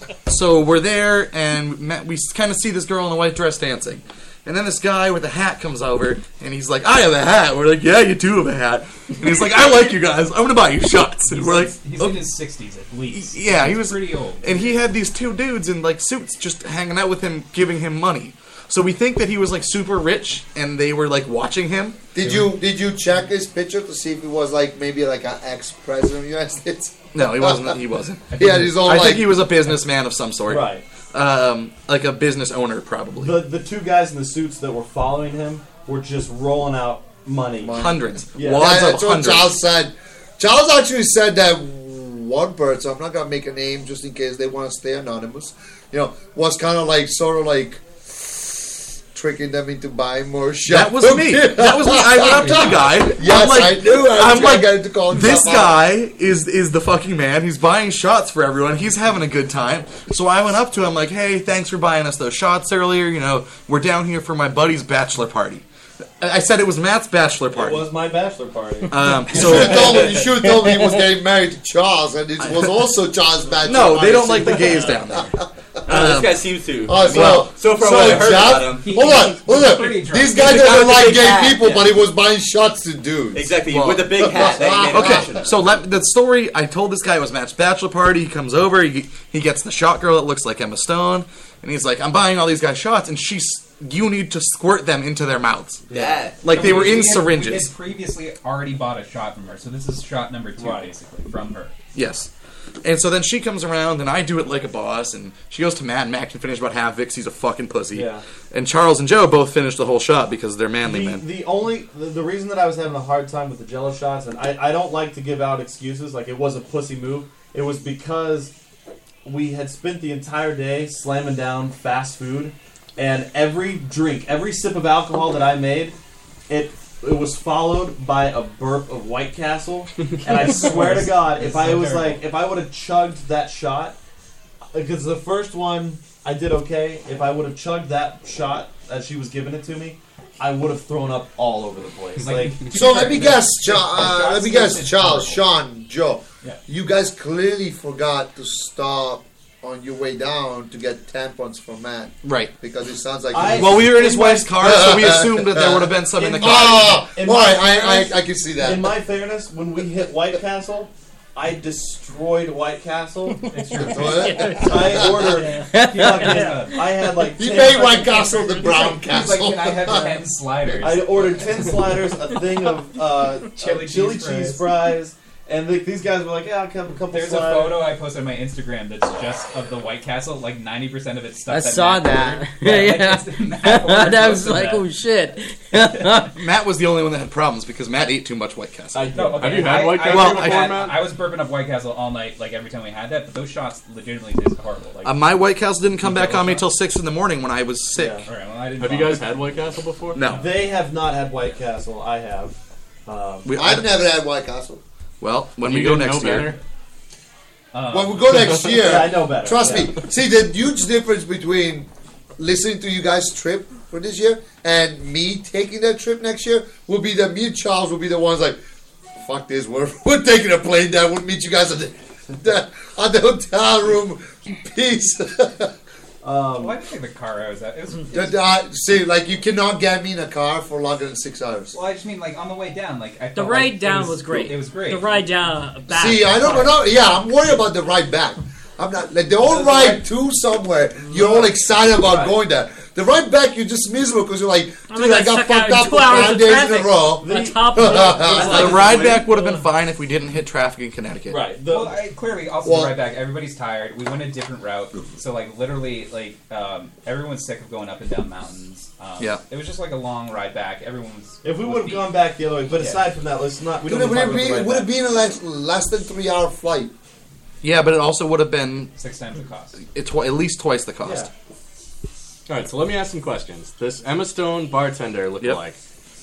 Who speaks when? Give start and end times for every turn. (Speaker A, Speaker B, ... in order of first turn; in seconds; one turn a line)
Speaker A: 0.3-12.3
Speaker B: 11.3-14.7
Speaker A: 13.1-22.1
Speaker C: 22.1-29.5
Speaker A: 27.1-33.5
Speaker B: 28.3-29.1
Speaker D: 30.5-30.8
Speaker D: 33.2-37.8
Speaker C: 37.6-55.8
Speaker A: 37.7-39.5
Speaker D: 38.3-38.7
Speaker A: 50.7-65.7
Speaker B: 52.2-53.0
Speaker A: 66.2-67.9
Speaker D: 67.5-70.0
Speaker A: 68.9-70.1
Speaker C: 69.3-75.4
Speaker A: 73.6-76.4
Speaker D: 74.6-74.9
Speaker E: 75.9-79.1
Speaker C: 76.9-85.4
Speaker A: 77.0-77.5
Speaker B: 78.8-80.7
Speaker E: 80.3-82.0
Speaker E: 83.3-85.8
Speaker A: 83.7-95.9
Speaker D: 95.9-96.3
Speaker E: 95.9-96.7
Speaker A: 96.4-97.7
Speaker B: 96.5-101.7
Speaker D: 100.6-100.9
Speaker A: 102.0-102.3
Speaker A: 102.8-111.2
Speaker D: 107.9-108.2
Speaker D: 110.8-118.5
Speaker D: 119.2-126.0
Speaker D: 126.5-134.0
Speaker B: 130.2-132.3
Speaker D: 134.7-142.7
Speaker B: 142.2-145.5
Speaker C: 142.7-153.9
Speaker A: 152.2-152.5
Speaker D: 153.3-154.9
Speaker A: 153.5-157.1
Speaker C: 154.6-158.9
Speaker D: 156.2-163.5
Speaker B: 163.5-164.6
Speaker C: 163.8-165.4
Speaker F: 164.1-165.7
Speaker D: 164.5-168.3
Speaker G: 165.7-166.5
Speaker B: 165.8-166.8
Speaker F: 166.2-166.6
Speaker C: 167.2-170.2
Speaker F: 167.9-169.0
Speaker B: 169.0-171.6
Speaker D: 170.8-177.8
Speaker B: 173.6-174.8
Speaker B: 177.1-184.9
Speaker G: 181.5-186.3
Speaker A: 186.3-190.9
Speaker D: 188.9-189.4
Speaker B: 189.1-195.3
Speaker H: 189.4-191.0
Speaker A: 195.0-198.2
Speaker B: 196.0-196.7
Speaker D: 197.9-198.2
Speaker B: 198.3-199.5
Speaker H: 198.8-200.3
Speaker A: 200.2-200.6
Speaker D: 200.3-202.6
Speaker D: 203.1-203.5
Speaker A: 203.4-204.0
Speaker C: 203.5-204.8
Speaker A: 205.2-206.5
Speaker H: 205.6-206.6
Speaker B: 207.7-208.6
Speaker C: 207.9-218.6
Speaker D: 208.7-210.0
Speaker C: 219.2-225.7
Speaker D: 226.2-226.8
Speaker B: 226.6-228.4
Speaker C: 228.1-231.8
Speaker B: 231.7-235.2
Speaker F: 233.3-236.8
Speaker C: 235.9-248.7
Speaker D: 239.5-239.9
Speaker B: 239.6-240.0
Speaker D: 241.2-241.5
Speaker F: 244.9-249.7
Speaker D: 247.2-249.3
Speaker A: 248.4-251.5
Speaker D: 251.3-252.0
Speaker B: 251.7-262.2
Speaker C: 252.6-253.0
Speaker D: 261.4-264.9
Speaker B: 262.7-263.1
Speaker C: 263.9-266.9
Speaker A: 267.6-268.9
Speaker B: 269.0-269.8
Speaker A: 269.9-271.3
Speaker D: 271.0-271.3
Speaker H: 272.5-275.8